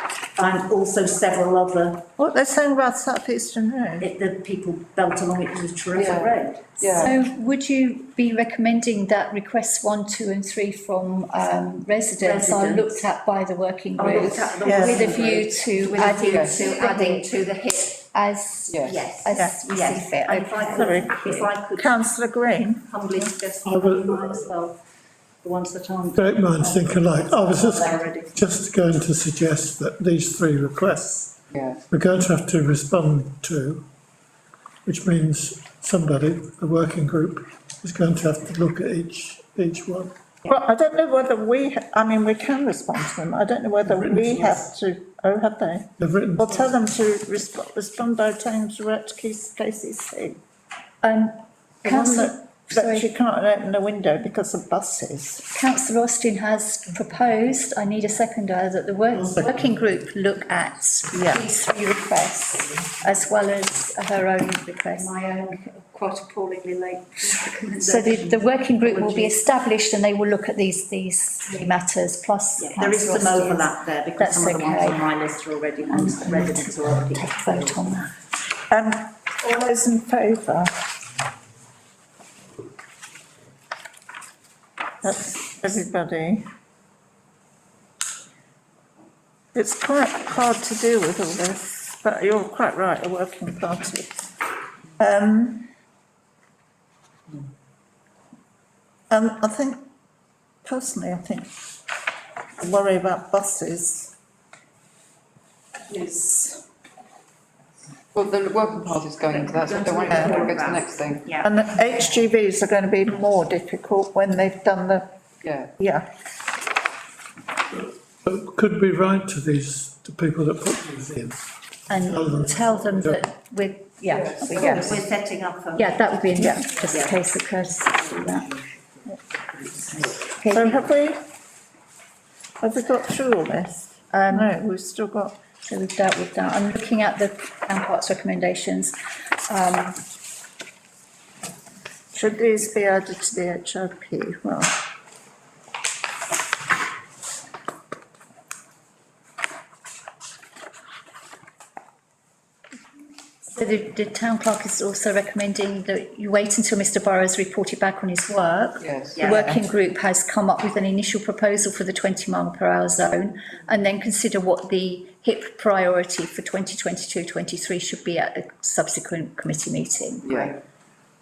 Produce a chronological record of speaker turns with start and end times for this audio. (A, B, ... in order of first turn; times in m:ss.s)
0:00.4-0:02.1 A
0:02.2-0:04.1 B
0:04.0-0:07.1 A
0:05.9-0:07.2 C
0:07.0-0:17.4 D
0:12.2-0:13.1 A
0:14.0-0:18.1 A
0:14.6-0:15.2 B
0:16.2-0:16.6 C
0:18.1-0:21.6 D
0:18.7-0:19.1 C
0:18.8-0:22.0 A
0:20.7-0:22.8 B
0:22.8-0:24.8 A
0:23.6-0:24.5 E
0:25.4-0:28.4 A
0:26.2-0:31.4 E
0:31.9-0:33.9 E
0:34.8-0:40.1 E
0:40.5-0:50.4 B
0:43.9-0:44.6 E
0:46.0-0:46.7 E
0:51.0-0:53.1 D
0:51.8-0:55.5 B
0:55.5-1:05.2 D
0:59.1-0:59.7 E
1:01.1-1:01.4 B
1:05.0-1:09.6 A
1:07.9-1:15.1 D
1:12.6-1:18.0 A
1:15.9-1:18.1 D
1:18.7-1:20.7 B
1:25.0-1:26.4 B
1:29.5-1:34.3 B
1:35.0-1:35.7 B
1:39.1-1:39.8 B
1:40.6-1:41.5 B
1:42.6-1:44.1 B
1:45.9-1:46.6 A
1:48.1-1:51.2 C
1:49.3-1:51.5 A
1:50.1-1:50.4 B
1:51.4-1:55.1 B
1:55.4-1:55.7 C
1:55.8-1:56.1 B
1:58.2-2:03.2 E
2:01.9-2:05.0 D
2:04.1-2:04.9 C
2:04.6-2:04.8 B
2:04.6-2:06.0 A
2:05.8-2:08.6 D
2:06.4-2:06.7 B
2:06.8-2:07.2 A
2:10.4-2:10.8 D
2:10.4-2:11.2 B
2:12.6-2:15.4 B
2:14.1-2:14.5 D
2:15.6-2:20.0 D
2:22.1-2:24.7 B
2:33.5-2:50.4 D
2:38.8-2:39.3 C
2:39.1-2:39.6 A
2:50.2-2:50.6 C